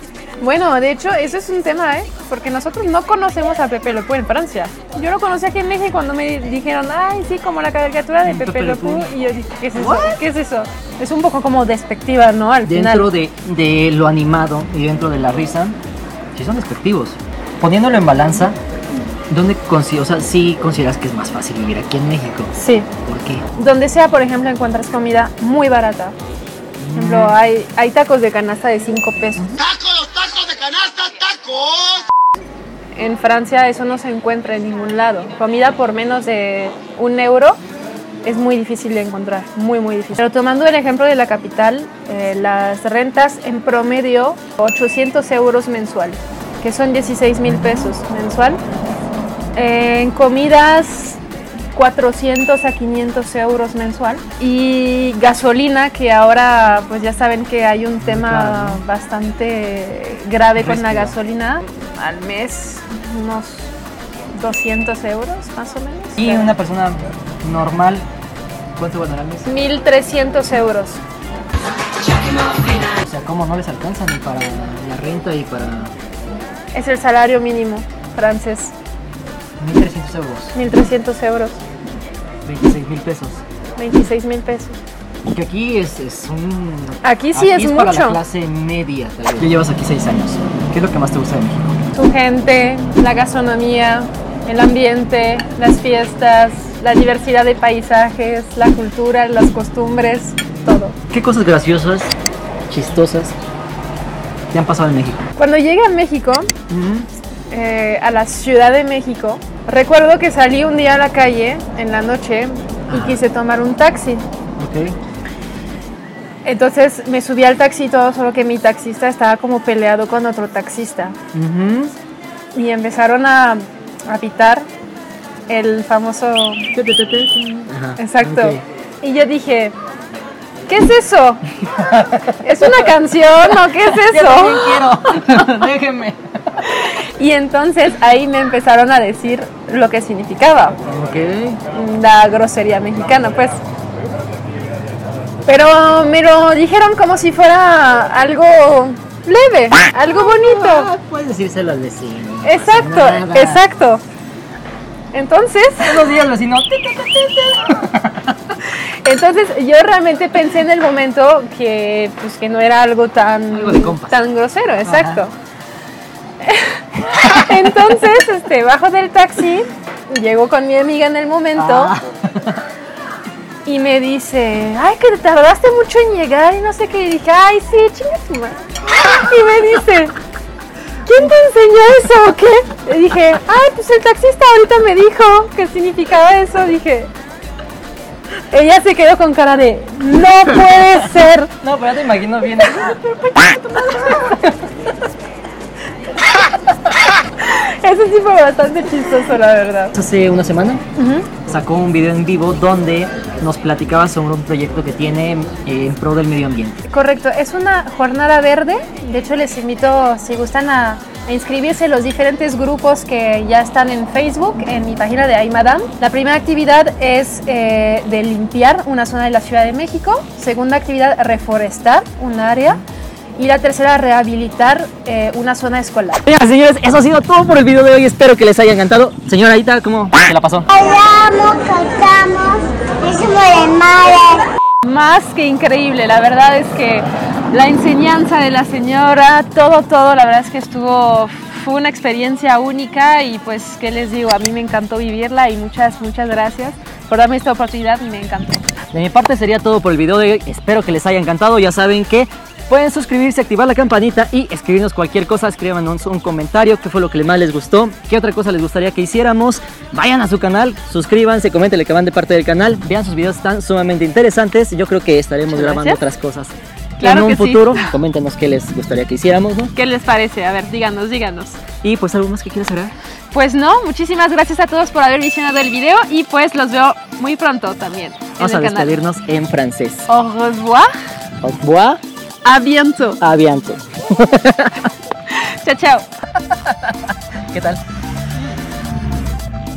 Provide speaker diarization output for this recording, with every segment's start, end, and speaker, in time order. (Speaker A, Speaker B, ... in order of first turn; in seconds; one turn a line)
Speaker A: 0.4-13.1
Speaker B: 8.2-9.1
Speaker B: 9.7-10.2
Speaker B: 12.6-15.8
Speaker B: 16.3-18.6
Speaker B: 19.3-23.4
Speaker A: 22.5-22.9
Speaker A: 23.5-26.1
Speaker B: 26.8-27.4
Speaker A: 26.9-29.5
Speaker C: 29.6-32.0
Speaker A: 32.9-37.6
Speaker A: 38.2-48.6
Speaker B: 47.5-48.0
Speaker A: 49.5-51.2
Speaker A: 51.7-63.7
Speaker B: 58.0-58.8
Speaker B: 60.5-61.1
Speaker A: 64.3-66.5
Speaker B: 66.2-68.0
Speaker B: 68.8-69.5
Speaker A: 69.5-71.0
Speaker B: 72.6-75.9
Speaker A: 76.7-78.7
Speaker B: 79.6-80.5
Speaker A: 80.5-81.6
Speaker B: 82.4-83.4
Speaker A: 83.8-84.8
Speaker B: 85.2-91.8
Speaker A: 87.0-88.2
Speaker A: 91.9-101.0
Speaker B: 101.1-102.1
Speaker B: 102.7-103.3
Speaker B: 104.5-105.2
Speaker A: 105.4-106.5
Speaker B: 106.7-107.1
Speaker A: 107.5-114.2
Speaker B: 112.9-113.2
Speaker B: 114.6-115.0
Speaker A: 116.4-121.1
Speaker B: 121.3-121.9
Speaker A: 122.5-124.7
Speaker A: 125.5-126.7
Speaker B: 126.7-128.6
Speaker A: 128.0-129.7
Speaker A: 130.7-131.5
Speaker B: 131.7-133.0
Speaker A: 132.4-134.8
Speaker B: 133.5-136.2
Speaker A: 136.6-140.8
Speaker B: 140.8-141.6
Speaker A: 141.7-143.6
Speaker A: 145.4-150.9
Speaker B: 150.0-153.6
Speaker A: 152.4-154.0
Speaker A: 155.1-156.2
Speaker B: 155.8-158.4
Speaker A: 159.0-165.3
Speaker B: 163.5-164.2
Speaker B: 164.8-165.2
Speaker A: 166.4-171.9
Speaker B: 167.2-167.8
Speaker B: 171.6-172.6
Speaker A: 173.6-180.1
Speaker A: 181.0-187.1
Speaker A: 188.5-191.5
Speaker B: 191.6-193.0
Speaker A: 192.5-194.4
Speaker B: 194.2-194.6
Speaker A: 197.4-199.9
Speaker B: 199.9-200.8
Speaker A: 200.9-201.3
Speaker B: 201.3-206.8
Speaker A: 206.8-222.8
Speaker A: 223.3-226.2
Speaker B: 226.2-230.7
Speaker D: 230.7-234.4
Speaker A: 234.8-248.6
Speaker B: 248.9-269.7
Speaker A: 265.5-266.0
Speaker A: 267.0-267.9
Speaker A: 269.7-271.6
Speaker B: 271.8-272.9
Speaker A: 273.3-279.0
Speaker B: 278.4-280.1
Speaker A: 280.1-280.9
Speaker B: 281.4-282.0
Speaker A: 282.4-283.2
Speaker B: 283.2-284.9
Speaker A: 285.3-286.1
Speaker B: 286.4-286.9
Speaker B: 287.5-287.8